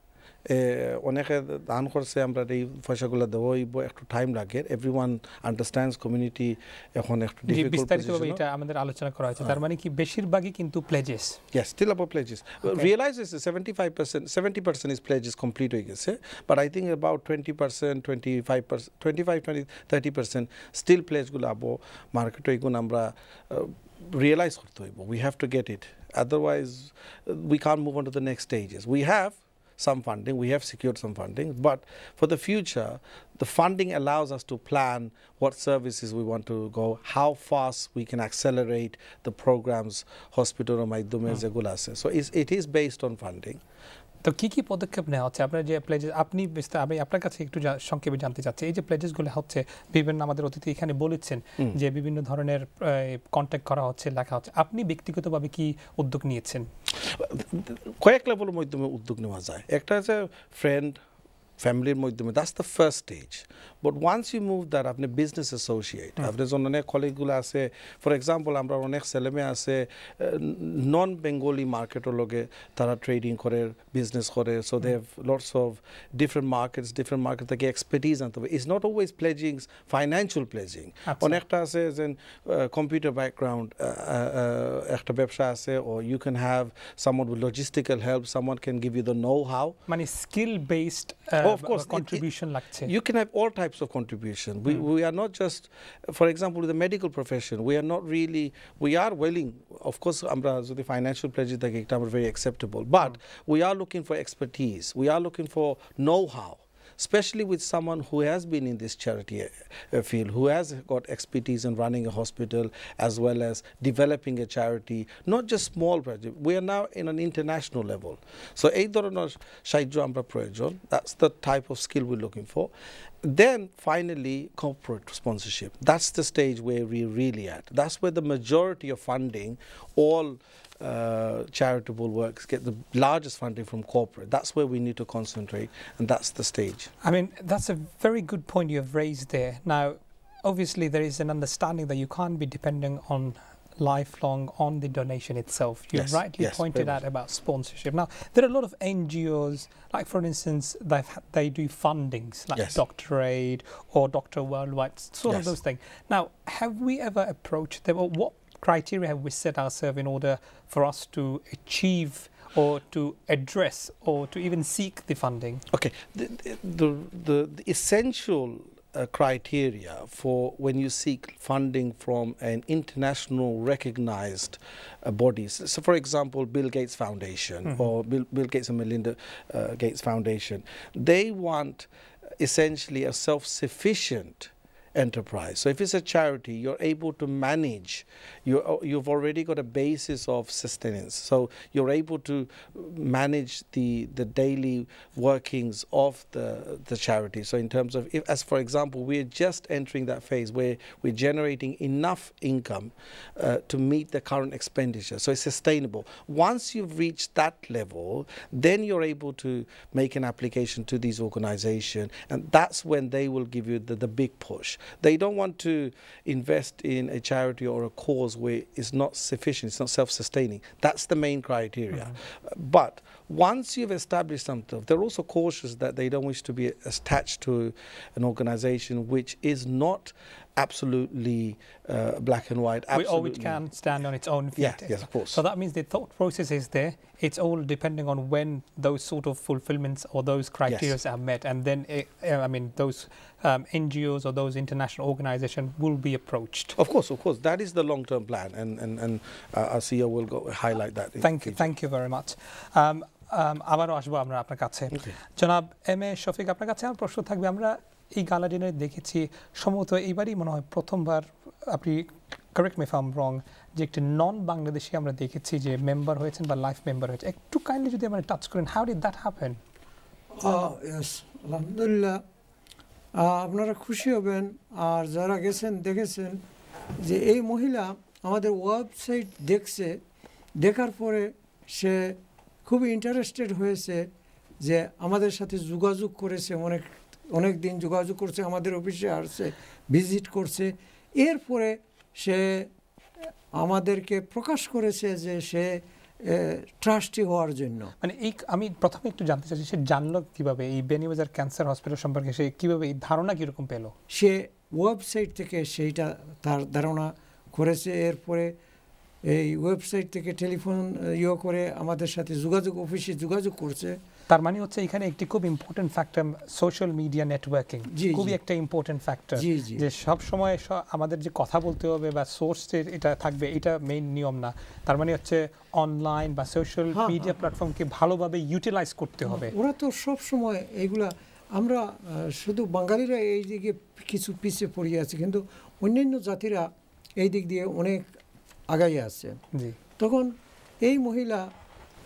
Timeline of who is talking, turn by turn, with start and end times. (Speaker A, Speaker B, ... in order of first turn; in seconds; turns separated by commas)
Speaker A: 0.5-8.4, Speaker B: 7.5-11.4, Speaker A: 11.5-43.6, Speaker B: 44.2-56.7, Speaker A: 57.0-61.0, Speaker A: 61.6-89.8, Speaker B: 81.1-81.4, Speaker B: 89.9-92.9, Speaker A: 91.4-92.2, Speaker A: 92.8-122.7, Speaker A: 123.2-136.9, Speaker B: 137.0-165.6, Speaker A: 145.9-147.0, Speaker A: 165.7-181.9, Speaker A: 182.4-233.6, Speaker B: 232.9-246.8, Speaker A: 234.6-235.4, Speaker A: 240.7-240.9, Speaker A: 246.8-251.7, Speaker B: 251.2-269.6, Speaker C: 270.3-272.2, Speaker C: 273.1-276.4, Speaker C: 277.0-280.0, Speaker C: 280.6-284.1, Speaker C: 284.6-292.7, Speaker C: 293.5-297.9, Speaker B: 298.0-303.9, Speaker C: 304.1-308.5, Speaker C: 309.2-314.0, Speaker B: 314.3-329.5, Speaker C: 317.9-318.4, Speaker C: 319.4-319.9, Speaker C: 326.9-327.3, Speaker C: 329.2-338.1, Speaker C: 338.7-339.4, Speaker C: 340.0-341.5